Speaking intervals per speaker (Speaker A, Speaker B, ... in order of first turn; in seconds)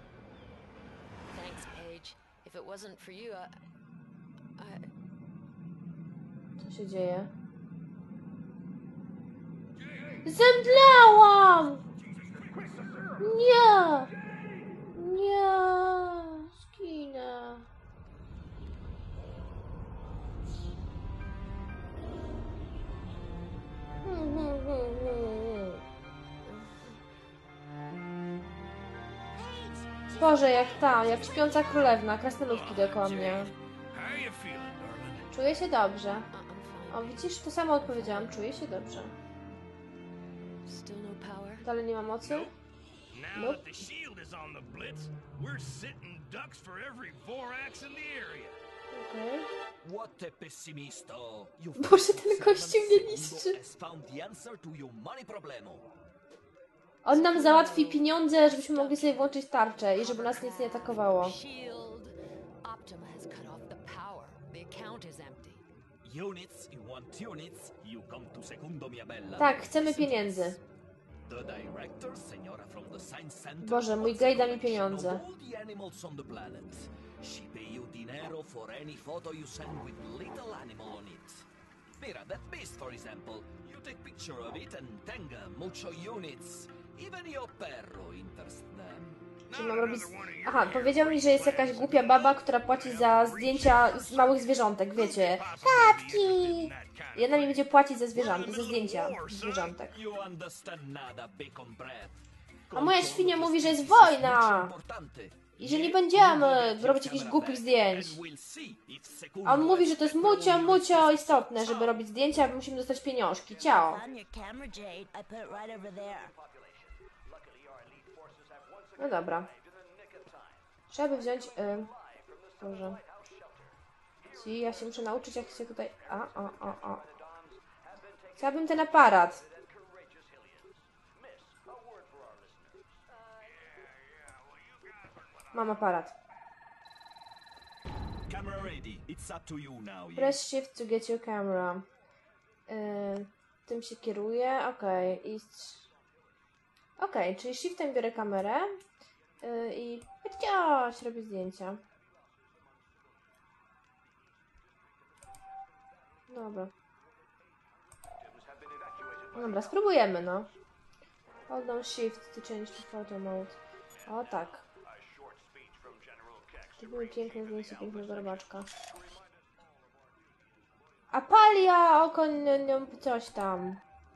Speaker A: 1.3-3.5, 4.6-4.9, 26.5-26.8, 36.3-38.5, 40.6-41.6, 57.1-65.6, 133.2-133.6
Speaker B: 6.6-7.3, 10.2-11.8, 13.2-14.1, 14.9-17.6, 24.0-25.8, 30.2-33.5, 35.3-36.3, 36.9-39.1, 41.6-42.5, 43.3-43.6, 48.9-49.5, 51.8-53.6, 57.0-61.4, 69.4-70.6, 73.6-75.2, 89.5-100.0, 102.7-104.7, 105.6-108.2, 109.4-114.0, 119.0-119.5, 120.9-121.9, 122.6-123.0, 124.3-127.0, 128.4-129.4, 135.5-136.1, 140.2-141.8, 142.7-145.8, 147.0-148.7, 149.4-151.8, 156.3-156.7, 159.3-160.5, 161.5-164.6, 166.8-168.7, 171.1-173.8
Speaker C: 33.9-35.2, 43.1-48.5, 89.5-94.3, 95.0-97.6, 98.1-99.7, 115.5-133.0, 158.1-159.9, 164.8-169.3
Speaker D: 49.8-55.9, 66.0-70.6, 71.3-81.5, 82.0-89.2, 99.9-112.0, 138.3-140.4
Speaker E: 113.8-116.3